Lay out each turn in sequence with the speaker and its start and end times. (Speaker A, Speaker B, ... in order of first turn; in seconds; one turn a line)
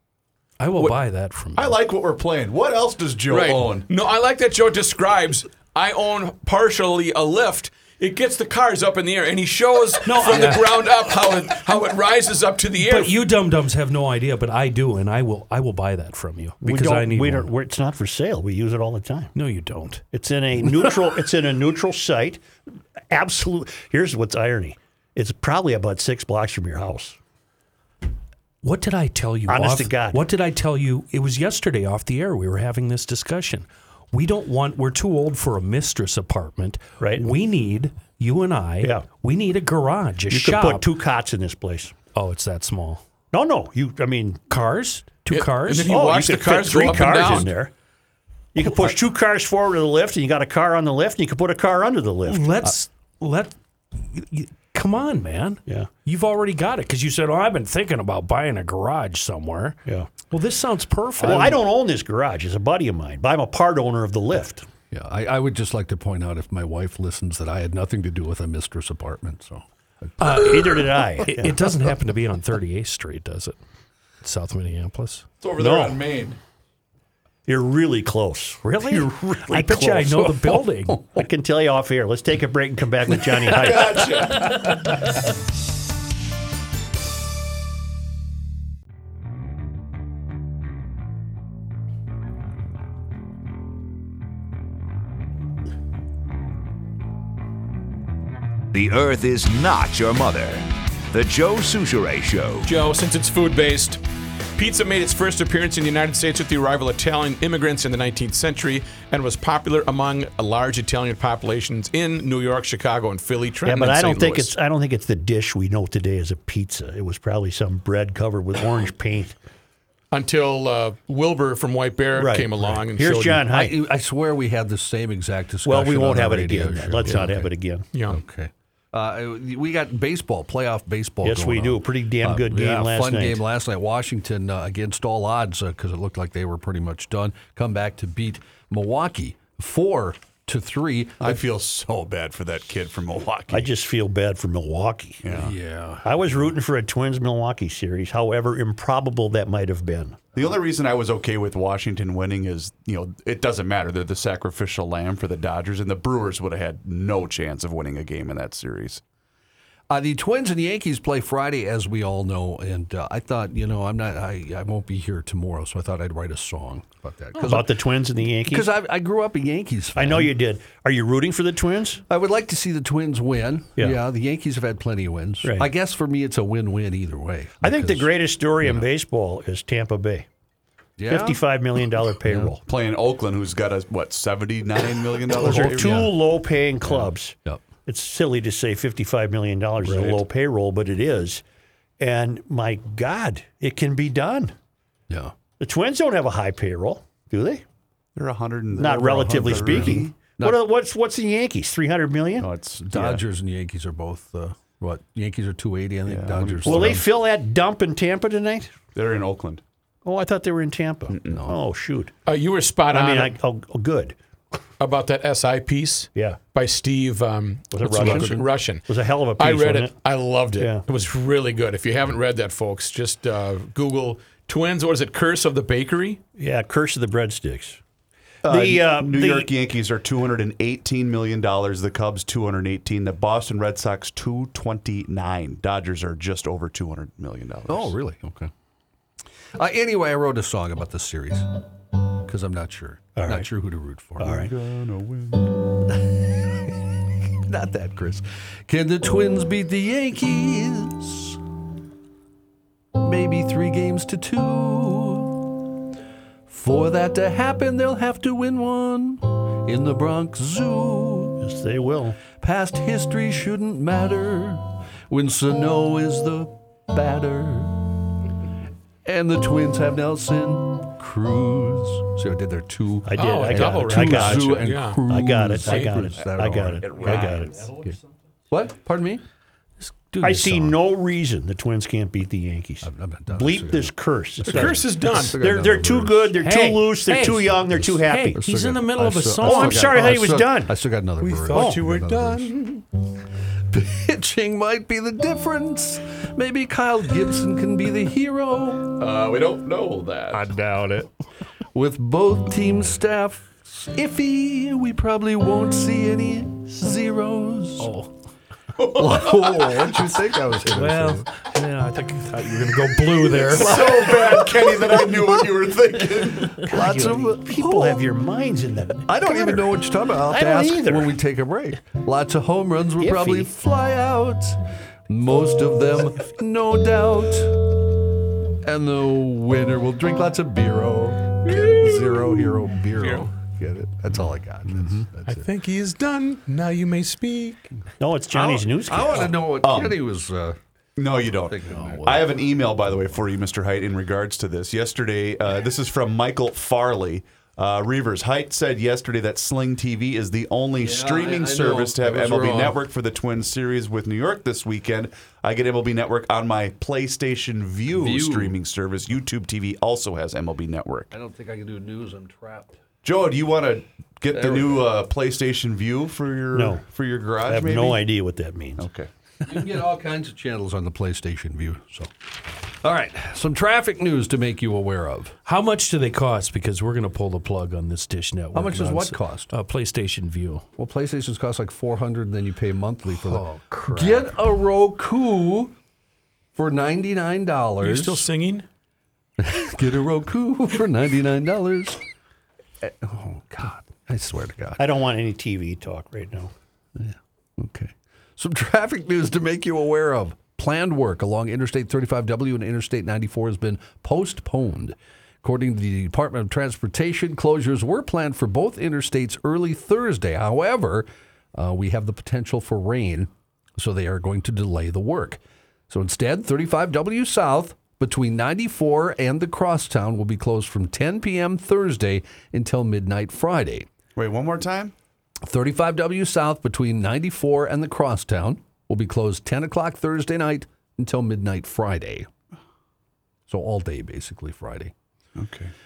Speaker A: 0.6-1.8
Speaker B: 1.6-3.9
Speaker C: 3.3-13.1
Speaker A: 10.1-10.7
Speaker D: 10.3-10.6
Speaker A: 12.8-17.5
Speaker E: 16.6-19.3
Speaker A: 19.3-20.0
Speaker E: 20.1-22.4
Speaker E: 23.1-27.2
Speaker A: 28.6-40.9
Speaker E: 29.5-30.2
Speaker E: 37.0-37.3
Speaker E: 40.3-41.9
Speaker A: 42.1-43.0
Speaker E: 43.3-44.5
Speaker A: 44.5-45.9
Speaker C: 45.3-47.5
Speaker E: 45.8-47.7
Speaker E: 48.5-52.5
Speaker A: 52.2-59.8
Speaker A: 60.3-61.6
Speaker E: 61.2-64.7
Speaker D: 64.9-70.4
Speaker E: 70.2-71.5
Speaker A: 70.2-73.5
Speaker A: 74.2-75.3
Speaker B: 75.4-76.4
Speaker E: 75.6-76.0
Speaker E: 77.5-80.6
Speaker A: 78.8-81.0
Speaker E: 81.1-84.4
Speaker B: 83.5-84.8
Speaker F: 98.7-102.7
Speaker C: 102.6-104.0
Speaker C: 104.5-114.5
Speaker E: 113.6-119.3
Speaker C: 120.1-123.4
Speaker E: 122.2-123.8
Speaker D: 123.5-127.5
Speaker E: 125.6-127.8
Speaker C: 127.9-128.2
Speaker D: 128.1-141.4
Speaker E: 131.2-133.4
Speaker B: 141.2-143.7
Speaker E: 143.5-145.2
Speaker B: 145.2-145.5
Speaker D: 145.3-146.3
Speaker E: 146.0-150.2
Speaker B: 150.3-159.0
Speaker D: 159.9-167.8
Speaker E: 167.4-168.7
Speaker D: 168.4-170.3
Speaker E: 169.9-172.0
Speaker D: 172.1-178.9
Speaker E: 177.6-180.2
Speaker D: 181.0-181.4
Speaker E: 181.1-182.6
Speaker D: 182.2-182.5
Speaker B: 182.7-186.1
Speaker E: 185.3-191.4
Speaker D: 185.3-186.1
Speaker D: 186.8-187.6
Speaker B: 189.8-190.2
Speaker E: 192.0-194.5
Speaker D: 195.1-195.3
Speaker E: 195.6-197.6
Speaker B: 198.2-200.2
Speaker E: 198.7-202.5
Speaker D: 199.0-200.6
Speaker B: 202.4-203.2
Speaker D: 202.8-207.0
Speaker B: 206.1-207.0
Speaker E: 206.6-208.8
Speaker B: 208.9-209.6
Speaker E: 210.0-212.1
Speaker B: 211.1-211.4
Speaker D: 211.3-211.6
Speaker C: 212.2-213.3
Speaker E: 212.9-214.1
Speaker C: 214.8-218.8
Speaker E: 217.7-219.9
Speaker D: 217.8-218.5
Speaker C: 219.4-226.2
Speaker E: 226.4-227.8
Speaker B: 228.4-237.9
Speaker E: 228.5-229.5
Speaker D: 237.7-238.5
Speaker D: 239.5-241.6
Speaker D: 242.2-244.5
Speaker E: 243.2-243.5
Speaker E: 244.2-244.5
Speaker B: 244.2-245.6
Speaker D: 245.9-246.8
Speaker D: 247.4-251.4
Speaker D: 252.9-255.7
Speaker D: 256.5-261.4
Speaker E: 261.4-262.2
Speaker D: 262.4-268.0
Speaker D: 269.0-277.9
Speaker E: 273.1-277.7
Speaker C: 273.1-275.0
Speaker B: 276.1-277.7
Speaker D: 278.5-279.2
Speaker A: 279.8-280.8
Speaker E: 280.2-284.8
Speaker D: 282.8-283.9
Speaker D: 284.4-286.4
Speaker C: 284.5-285.4
Speaker E: 285.4-288.4
Speaker A: 286.4-290.1
Speaker D: 288.3-292.5
Speaker E: 289.4-290.7
Speaker C: 291.2-292.8
Speaker E: 291.5-291.8
Speaker D: 293.7-298.9
Speaker B: 299.0-300.4
Speaker D: 300.3-301.1
Speaker A: 300.4-301.0
Speaker D: 301.7-307.9
Speaker A: 307.8-308.1
Speaker B: 308.8-309.2
Speaker D: 308.9-311.3
Speaker A: 310.7-314.0
Speaker B: 313.5-316.6
Speaker D: 313.5-315.0
Speaker D: 316.5-318.1
Speaker E: 316.7-321.1
Speaker D: 319.1-327.7
Speaker E: 323.0-323.5
Speaker D: 328.6-335.4
Speaker C: 333.0-333.3
Speaker C: 335.2-337.6
Speaker E: 338.0-339.4
Speaker D: 338.3-340.6
Speaker B: 339.6-340.0
Speaker B: 341.0-361.1
Speaker D: 341.5-342.4
Speaker D: 350.8-352.8
Speaker D: 357.9-358.5
Speaker D: 361.1-362.8
Speaker B: 363.0-368.0
Speaker D: 364.3-364.8
Speaker E: 366.5-366.8
Speaker E: 367.4-368.9
Speaker B: 368.8-369.1
Speaker D: 369.4-372.1
Speaker D: 372.7-375.4
Speaker A: 375.4-380.6
Speaker D: 378.5-379.5
Speaker D: 380.8-385.7
Speaker A: 383.1-384.3
Speaker D: 386.5-388.2
Speaker C: 387.8-388.6
Speaker D: 389.4-392.0
Speaker D: 392.8-394.8
Speaker E: 394.8-396.5
Speaker D: 396.9-423.9
Speaker B: 424.1-424.9
Speaker D: 425.4-432.3
Speaker D: 433.5-434.9
Speaker B: 435.4-435.7